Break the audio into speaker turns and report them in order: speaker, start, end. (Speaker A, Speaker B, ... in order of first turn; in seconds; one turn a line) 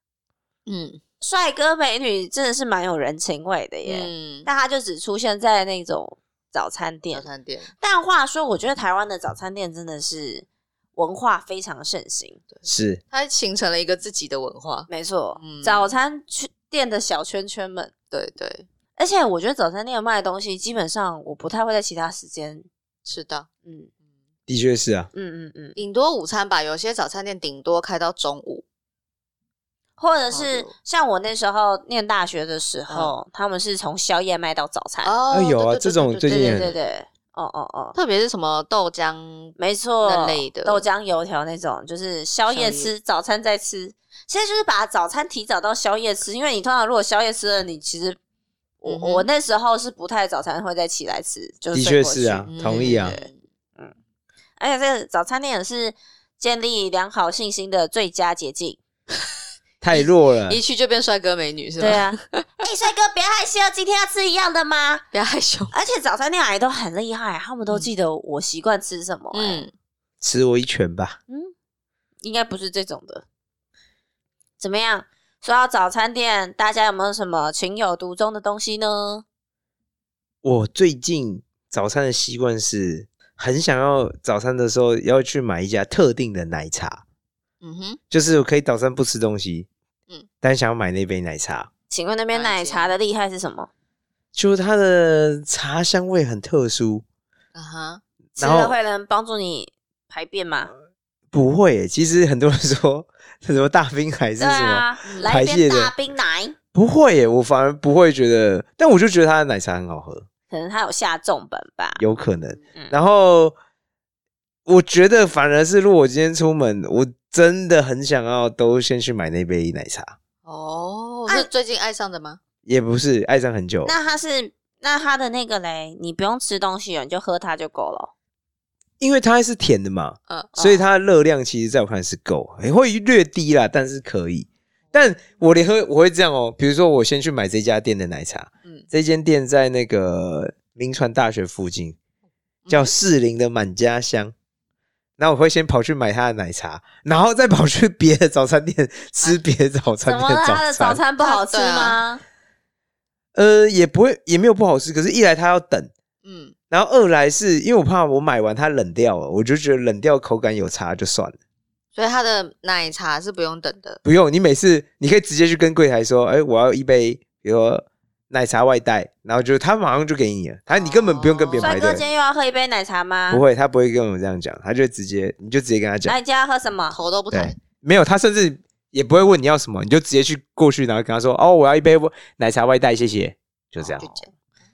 Speaker A: 0.7-1.0
Speaker B: 1.2-7.3
Speaker A: 3.8-4.5
Speaker A: 7.1-7.7
Speaker B: 7.8-12.4
Speaker A: 12.5-15.9
Speaker C: 12.6-13.0
Speaker B: 14.9-17.9
Speaker A: 18.1-18.6
Speaker B: 19.0-22.7
Speaker A: 23.0-23.5
Speaker C: 24.5-25.1
Speaker B: 25.1-25.8
Speaker A: 25.8-28.6
Speaker B: 30.0-35.1
Speaker A: 30.3-30.7
Speaker A: 35.0-36.8
Speaker C: 35.3-36.7
Speaker B: 36.2-38.0
Speaker A: 37.9-40.8
Speaker B: 39.6-48.2
Speaker A: 42.5-42.9
Speaker B: 48.8-53.9
Speaker A: 48.9-49.2
Speaker C: 51.7-53.1
Speaker A: 52.5-53.3
Speaker B: 54.6-58.8
Speaker C: 59.8-60.6
Speaker A: 59.9-62.4
Speaker B: 61.8-65.0
Speaker A: 65.1-65.7
Speaker B: 65.7-69.6
Speaker A: 69.3-69.7
Speaker C: 70.2-71.2
Speaker B: 72.2-73.2
Speaker B: 74.6-79.2
Speaker C: 80.4-87.0
Speaker A: 87.6-88.0
Speaker C: 88.1-89.7
Speaker C: 90.4-91.7
Speaker B: 91.9-93.7
Speaker A: 92.3-92.9
Speaker C: 94.3-97.0
Speaker A: 97.5-98.0
Speaker B: 98.4-100.7
Speaker C: 98.4-98.7
Speaker C: 101.3-105.9
Speaker B: 104.4-106.6
Speaker A: 105.0-105.3
Speaker C: 106.7-110.3
Speaker B: 110.5-112.0
Speaker C: 112.0-113.5
Speaker C: 114.7-120.2
Speaker A: 120.4-122.4
Speaker C: 122.7-123.9
Speaker B: 123.8-128.1
Speaker C: 129.0-141.9
Speaker B: 130.5-130.8
Speaker A: 142.7-142.9
Speaker C: 142.7-144.3
Speaker C: 145.2-151.0
Speaker B: 150.0-152.2
Speaker A: 151.2-152.0
Speaker C: 153.3-155.9
Speaker A: 156.2-156.5
Speaker C: 156.7-161.4
Speaker A: 161.9-164.0
Speaker C: 164.0-172.0
Speaker A: 170.7-172.0
Speaker B: 171.6-173.4
Speaker C: 173.3-176.1
Speaker B: 176.0-177.0
Speaker A: 176.9-177.6
Speaker C: 177.3-184.0
Speaker A: 183.8-184.3